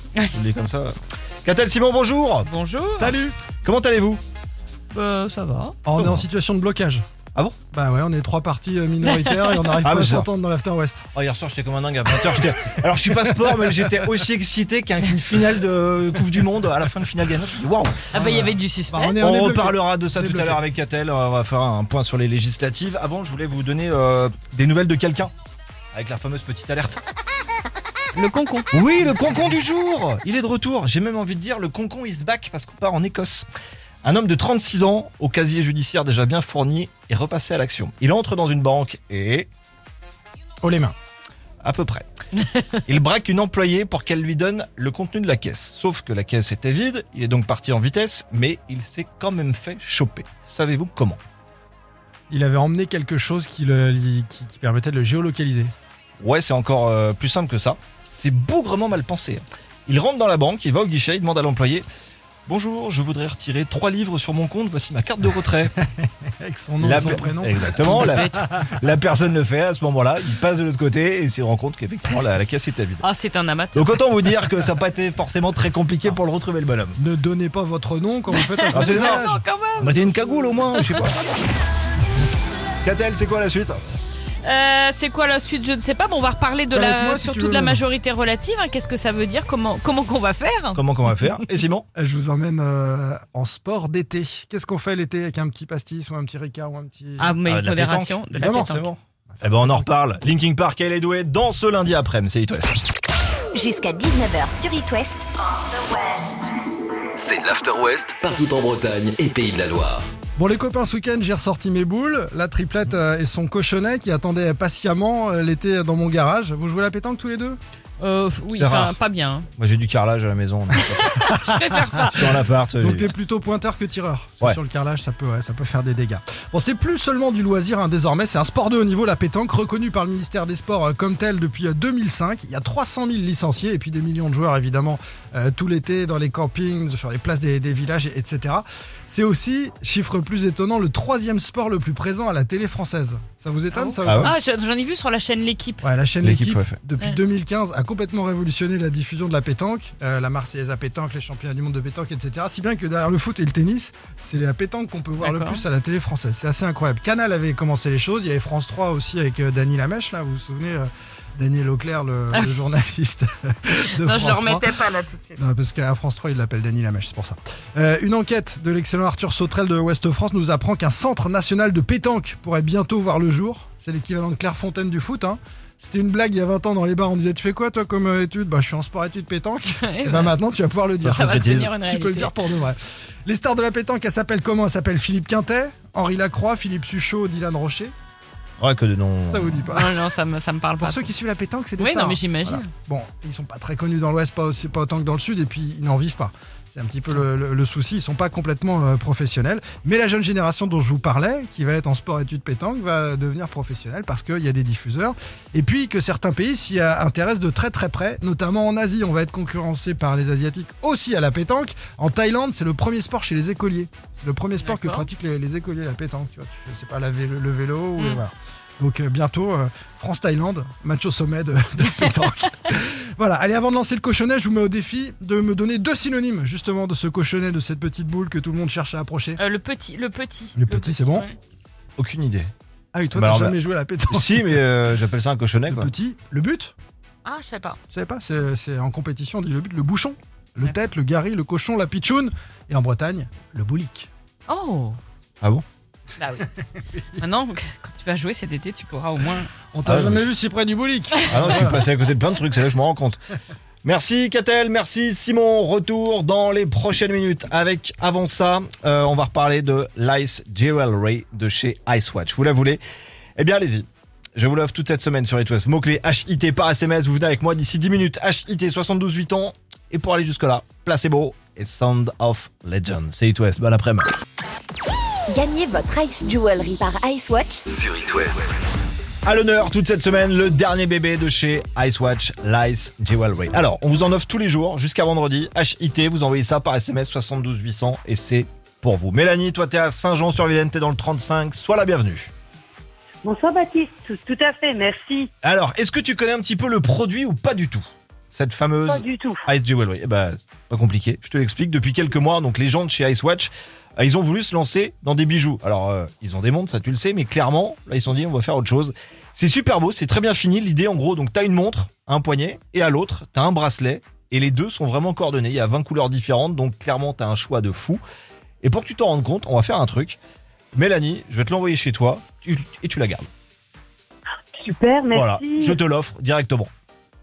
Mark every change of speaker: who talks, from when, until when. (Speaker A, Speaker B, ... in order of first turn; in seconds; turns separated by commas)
Speaker A: 0.3-0.9, Speaker A: 1.4-2.5, Speaker B: 2.4-3.2, Speaker C: 3.0-3.4, Speaker A: 3.6-4.2, Speaker B: 4.9-5.8, Speaker C: 5.8-7.0, Speaker A: 6.0-6.2, Speaker C: 7.7-11.1, Speaker B: 9.1-9.4, Speaker A: 9.8-10.3, Speaker A: 11.1-18.1, Speaker B: 18.1-19.2, Speaker C: 18.1-20.6, Speaker A: 19.2-25.3, Speaker A: 25.9-27.0, Speaker B: 28.1-28.7, Speaker A: 28.7-33.5, Speaker A: 34.0-39.5, Speaker C: 40.6-40.9, Speaker A: 41.6-42.0, Speaker A: 42.9-51.2, Speaker C: 52.3-55.7, Speaker A: 56.2-61.9, Speaker A: 62.5-65.8, Speaker C: 65.8-68.2, Speaker A: 66.8-73.0, Speaker B: 67.8-68.5, Speaker B: 73.0-74.0, Speaker A: 73.7-77.0, Speaker C: 77.0-79.4, Speaker B: 78.3-81.0, Speaker A: 78.7-79.2, Speaker A: 79.8-81.2, Speaker A: 82.8-83.8, Speaker B: 84.4-91.2, Speaker C: 86.7-87.8, Speaker A: 90.7-91.8, Speaker C: 91.9-97.4, Speaker B: 97.2-98.9, Speaker A: 97.4-102.8, Speaker C: 98.4-99.9, Speaker D: 103.5-106.4, Speaker E: 107.2-110.1, Speaker C: 110.4-117.6, Speaker B: 118.0-119.5, Speaker A: 118.5-119.0, Speaker A: 119.6-121.1, Speaker B: 120.8-122.3, Speaker C: 121.2-144.3, Speaker A: 122.0-123.1, Speaker B: 143.7-145.8, Speaker A: 144.0-144.3, Speaker C: 145.8-164.7, Speaker A: 146.2-146.8, Speaker B: 155.2-155.6, Speaker B: 164.0-165.4, Speaker C: 165.3-187.9, Speaker B: 179.7-180.3, Speaker A: 181.0-181.7, Speaker B: 181.1-182.3, Speaker A: 188.6-189.7, Speaker C: 189.2-190.1, Speaker B: 189.7-191.1, Speaker C: 190.8-229.4, Speaker B: 191.8-192.7, Speaker B: 214.6-215.1, Speaker B: 229.4-231.3, Speaker C: 230.6-231.3, Speaker A: 232.0-232.5, Speaker C: 232.9-234.7, Speaker A: 233.1-233.6, Speaker A: 234.1-235.9, Speaker C: 235.7-236.7, Speaker B: 237.2-237.8, Speaker C: 237.9-244.1, Speaker B: 244.5-245.0, Speaker B: 246.2-246.5, Speaker C: 246.9-247.2, Speaker B: 247.2-249.5, Speaker C: 249.7-251.8, Speaker A: 249.8-250.3, Speaker A: 251.3-253.2, Speaker A: 253.8-262.8, Speaker A: 263.4-274.1, Speaker D: 275.3-277.6, Speaker E: 277.7-278.6, Speaker A: 279.2-292.3, Speaker F: 293.3-295.2, Speaker A: 295.4-318.0, Speaker F: 299.0-299.4, Speaker A: 318.6-320.2, Speaker A: 320.7-323.2, Speaker F: 324.6-325.6, Speaker A: 325.1-326.7